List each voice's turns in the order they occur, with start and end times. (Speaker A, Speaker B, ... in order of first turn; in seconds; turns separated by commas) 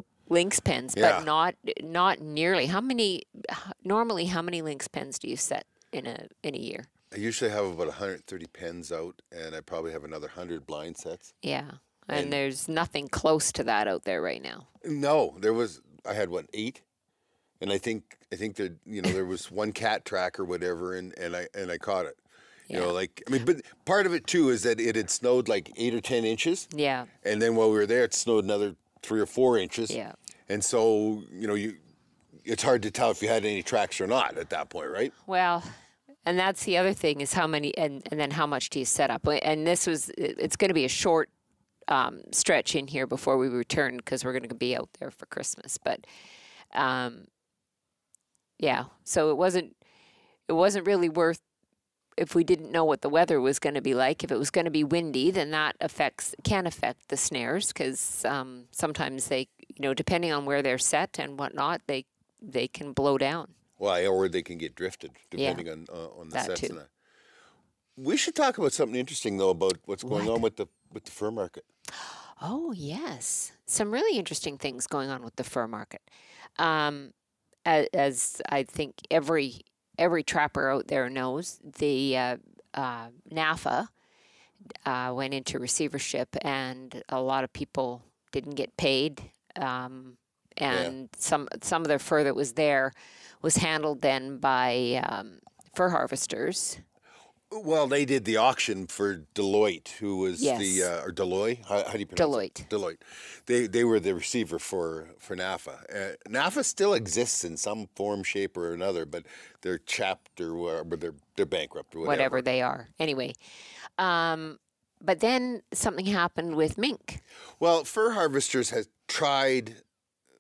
Speaker A: 0.3-6.9, Speaker B: 0.9-1.3, Speaker B: 7.1-11.3, Speaker A: 11.4-14.7, Speaker B: 14.8-16.9, Speaker B: 17.6-22.2, Speaker B: 22.7-26.7, Speaker A: 26.7-27.1, Speaker B: 27.2-30.0, Speaker A: 29.9-30.1, Speaker B: 30.5-31.8, Speaker B: 32.4-35.1, Speaker A: 35.2-35.7, Speaker A: 36.2-41.3, Speaker A: 41.9-46.0, Speaker A: 46.7-47.3, Speaker A: 48.6-49.8, Speaker A: 50.5-51.4, Speaker A: 52.2-63.5, Speaker B: 63.8-66.9, Speaker A: 65.4-65.6, Speaker A: 66.3-66.8, Speaker B: 68.0-71.7, Speaker A: 70.0-70.4, Speaker A: 72.0-76.1, Speaker A: 76.6-77.1, Speaker A: 77.7-83.9, Speaker A: 84.9-96.8, Speaker B: 90.7-90.9, Speaker B: 97.5-112.4, Speaker A: 100.4-100.9, Speaker A: 102.2-102.7, Speaker A: 112.0-113.4, Speaker A: 114.0-117.2, Speaker B: 117.6-119.8